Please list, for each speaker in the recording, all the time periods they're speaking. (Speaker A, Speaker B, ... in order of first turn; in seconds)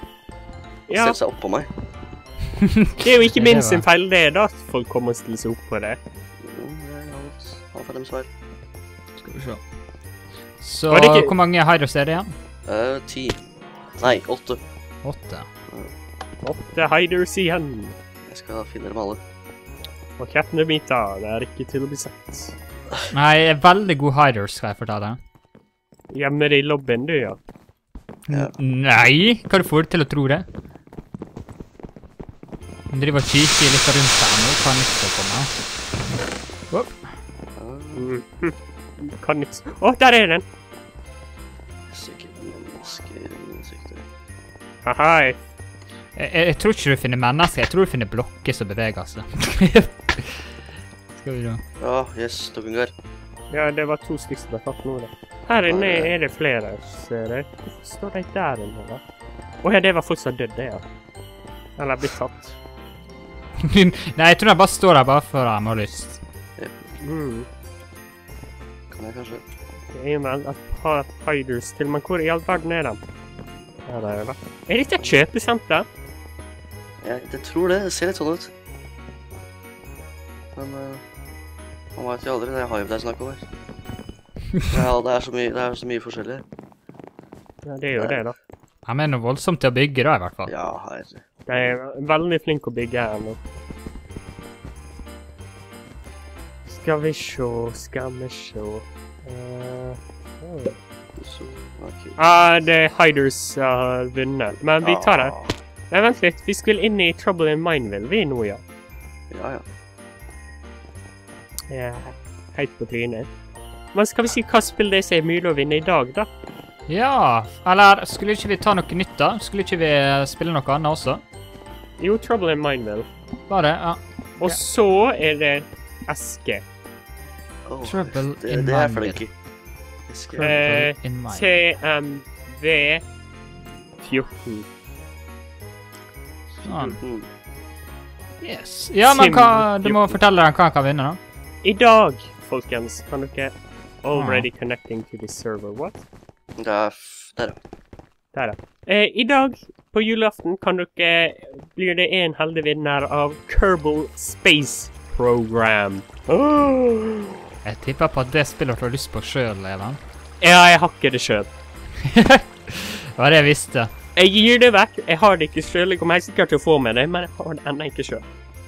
Speaker A: 0.9-1.2, 3.0-6.0, 10.9-11.3, 16.4-17.9, 20.2-22.5, 26.1-27.4, 37.9-40.4, 44.8-45.4, 53.5-59.0, 59.6-60.8, 61.8-62.5, 67.0-67.5, 69.9-73.0, 73.9-75.8, 87.6-88.3, 91.5-93.4, 96.7-100.8, 102.2-105.3, 105.9-108.6, 111.7-113.3, 113.9-116.3, 122.0-123.1, 124.4-126.6, 130.4-133.0, 134.0-134.7, 136.7-137.0, 139.0-140.2, 141.6-146.0, 148.3-157.4, 160.4-161.5, 164.1-168.2
Speaker B: 0.9-1.7, 6.4-8.3, 12.7-13.4, 13.9-14.6, 18.2-19.2, 37.6-38.1, 41.9-44.0, 51.8-52.9, 55.6-56.1, 66.6-66.9, 68.9-69.4, 77.0-78.5, 80.5-81.0, 82.0-83.5, 84.7-86.4, 90.5-91.7, 101.2-102.2, 104.8-105.5, 109.3-109.6, 127.6-129.3, 130.1-130.7, 136.8-137.3, 146.6-147.6
Speaker C: 2.6-3.8, 9.2-9.6, 10.6-12.3, 15.0-15.5, 23.1-25.2, 28.3-30.4, 32.9-35.5, 36.7-37.0, 46.1-50.5, 51.1-51.6, 63.6-66.2, 88.8-90.5, 116.9-121.2, 123.5-124.6, 127.8-129.2, 130.4-131.5, 136.6-137.0, 138.4-141.2, 144.1-144.5, 157.6-160.0, 162.0-163.9